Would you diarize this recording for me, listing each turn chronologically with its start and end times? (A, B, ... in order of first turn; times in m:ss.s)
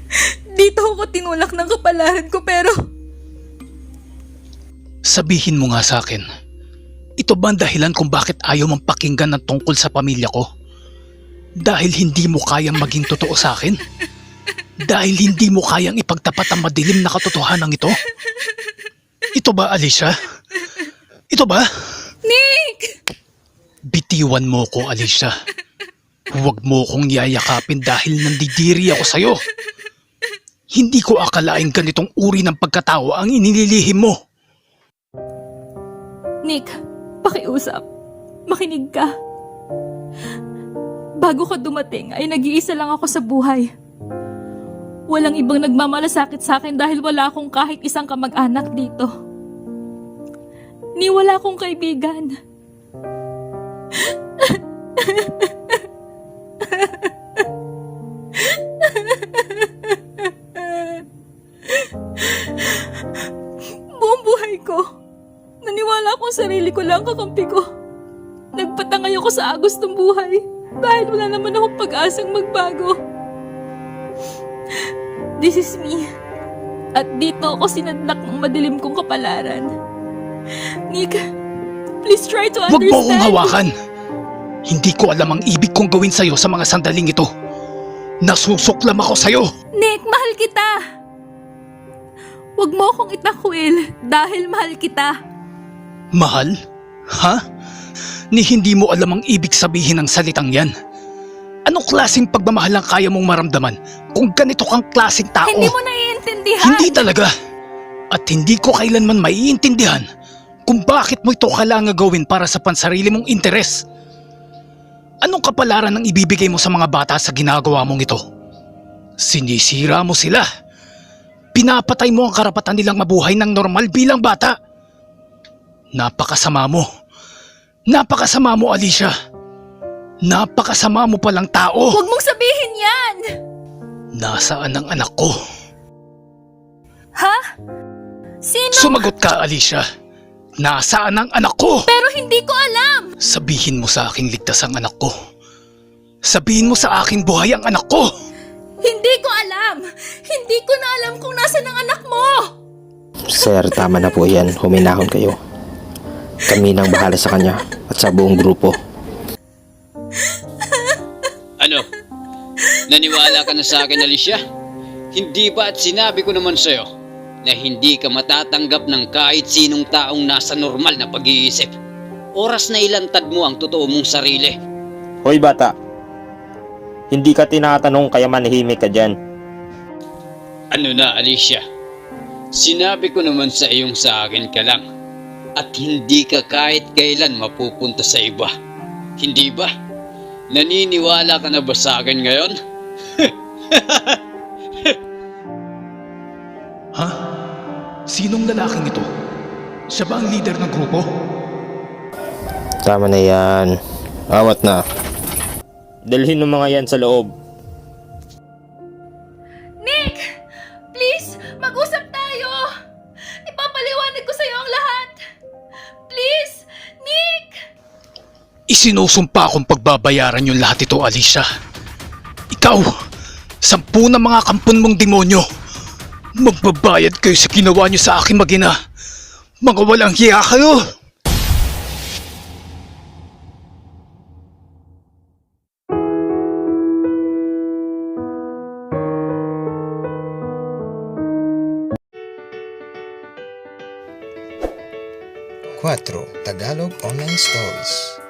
0:00.6-0:02.8 A
0:05.0-0:06.2 B
0:07.2-0:10.5 B
0:11.6-0:13.8 B
0:14.9-0:18.0 B
0:19.4-0:20.1 B
0:21.3-0:21.6 B
0:22.3-0:23.0 A
0:23.9-0:25.3 B
0:26.3-0:29.4 B
0:30.7-0:34.2 B
0:37.2-0:37.8 A
0:38.5-0:39.1 A
0:41.2-0:43.7 A
0:45.1-0:49.1 A
0:51.0-0:52.4 A
0:54.4-0:55.5 A
0:56.6-0:57.1 A
0:58.6-1:01.0 A
1:01.7-1:02.9 A
1:04.0-1:04.8 A
1:05.6-1:07.6 A
1:08.6-1:13.0 A
1:15.4-1:16.1 A
1:17.0-1:19.7 A
1:20.9-1:21.2 A
1:22.0-1:23.6 A
1:22.7-1:23.7 B
1:24.7-1:27.3 B
1:28.2-1:29.5 B
1:29.8-1:30.7 A
1:32.6-1:35.1 A
1:36.1-1:36.5 B
1:38.3-1:40.7 B
1:41.7-1:45.8 B
1:45.5-1:47.1 A
1:46.6-1:47.3 B
1:48.1-1:50.0 B
1:50.7-1:53.8 B
1:55.2-1:58.2 B
1:59.2-2:00.4 B
2:01.6-2:04.5 B
2:06.0-2:06.8 B
2:07.9-2:09.1 B
2:10.3-2:12.0 B
2:11.9-2:13.2 A
2:14.2-2:15.3 B
2:18.5-2:19.1 A
2:18.7-2:19.8 B
2:20.6-2:21.9 B
2:21.9-2:23.1 A
2:23.2-2:25.1 B
2:26.2-2:28.1 B
2:28.8-2:32.4 A
2:33.3-2:35.4 C
2:36.5-2:38.7 C
2:41.6-2:41.9 D
2:42.9-2:44.4 D
2:43.2-2:44.0 A
2:45.1-2:46.9 D
2:47.4-2:51.7 D
2:52.4-2:54.6 D
2:55.2-2:55.7 C
2:57.1-2:59.1 C
3:00.7-3:01.6 D
3:02.5-3:04.8 D
3:05.6-3:08.5 D
3:09.2-3:09.7 D
3:10.5-3:12.6 D
3:13.2-3:14.2 D
3:18.1-3:19.1 B
3:19.9-3:21.1 B
3:22.8-3:23.8 C
3:24.3-3:24.8 C
3:26.1-3:27.3 C
3:29.8-3:30.2 A
3:30.9-3:32.7 A
3:33.5-3:35.1 A
3:36.1-3:37.5 A
3:38.7-3:41.4 B
3:42.5-3:42.9 B
3:43.6-3:45.4 B
3:46.4-3:48.7 B
3:49.6-3:50.8 B
4:05.8-4:08.1 E